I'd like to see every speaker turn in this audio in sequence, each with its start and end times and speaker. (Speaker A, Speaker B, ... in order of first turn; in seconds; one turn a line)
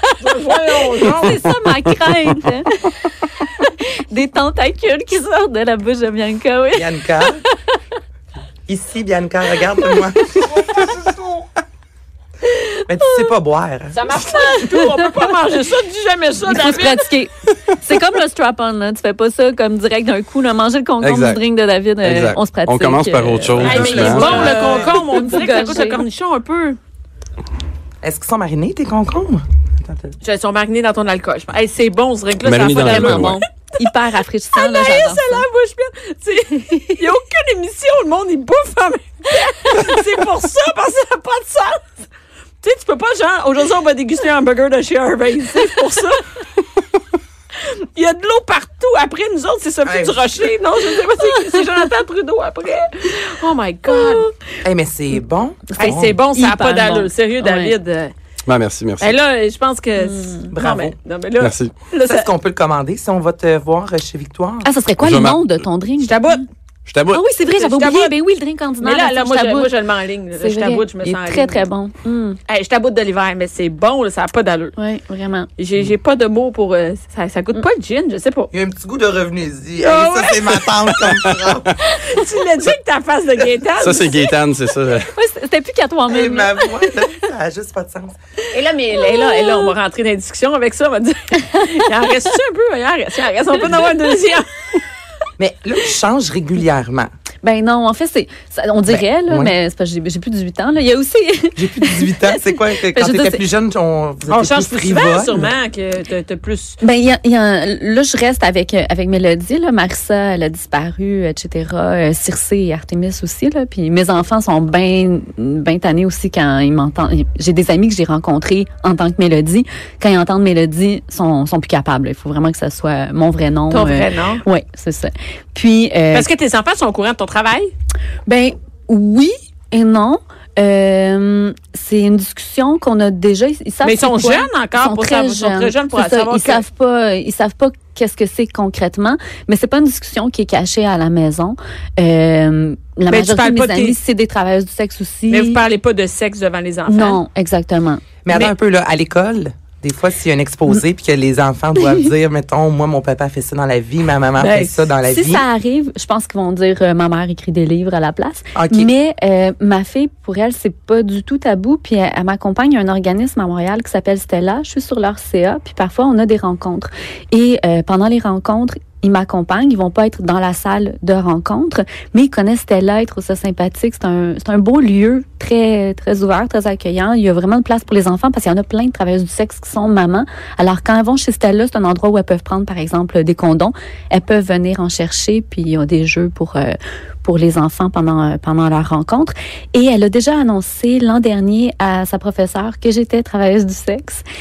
Speaker A: 0.2-1.6
Speaker B: 0.8-7.5
Speaker C: 6.7-7.4
Speaker C: 8.7-10.9
Speaker B: 9.6-10.8
Speaker C: 12.9-14.2
Speaker A: 13.9-17.0
Speaker B: 14.1-15.3
Speaker B: 16.4-26.0
Speaker D: 21.0-21.4
Speaker D: 22.0-24.6
Speaker A: 23.6-26.8
Speaker C: 23.7-24.8
Speaker C: 28.0-30.1
Speaker A: 30.2-33.4
Speaker D: 32.4-33.4
Speaker B: 32.8-35.5
Speaker A: 34.5-41.9
Speaker A: 42.6-46.2
Speaker A: 47.5-54.2
Speaker C: 49.8-50.5
Speaker B: 53.9-54.3
Speaker C: 54.6-56.2
Speaker A: 55.8-58.1
Speaker B: 55.8-57.8
Speaker D: 58.5-59.2
Speaker A: 59.0-62.3
Speaker B: 60.0-60.5
Speaker C: 60.5-60.9
Speaker D: 61.4-61.7
Speaker C: 62.0-64.7
Speaker B: 64.6-66.4
Speaker D: 65.0-65.5
Speaker A: 66.0-66.4
Speaker D: 66.8-67.2
Speaker B: 67.1-69.7
Speaker A: 67.5-68.2
Speaker A: 68.8-71.7
Speaker B: 70.4-72.4
Speaker A: 72.5-74.7
Speaker B: 74.8-75.5
Speaker A: 75.6-78.5
Speaker C: 78.5-81.7
Speaker A: 79.8-80.5
Speaker A: 81.8-84.3
Speaker D: 83.8-85.1
Speaker B: 85.2-87.3
Speaker C: 86.1-88.2
Speaker A: 88.5-94.5
Speaker B: 88.9-89.7
Speaker C: 95.4-97.1
Speaker B: 97.4-103.4
Speaker C: 98.9-99.5
Speaker C: 101.5-105.5
Speaker A: 104.3-106.8
Speaker B: 106.8-126.3
Speaker A: 123.7-124.4
Speaker A: 126.1-127.7
Speaker B: 128.3-145.6
Speaker A: 133.8-136.6
Speaker A: 143.1-143.9
Speaker A: 145.3-147.2
Speaker B: 146.9-148.1
Speaker C: 148.2-155.4
Speaker A: 154.4-154.9
Speaker B: 155.0-194.2
Speaker C: 158.5-158.9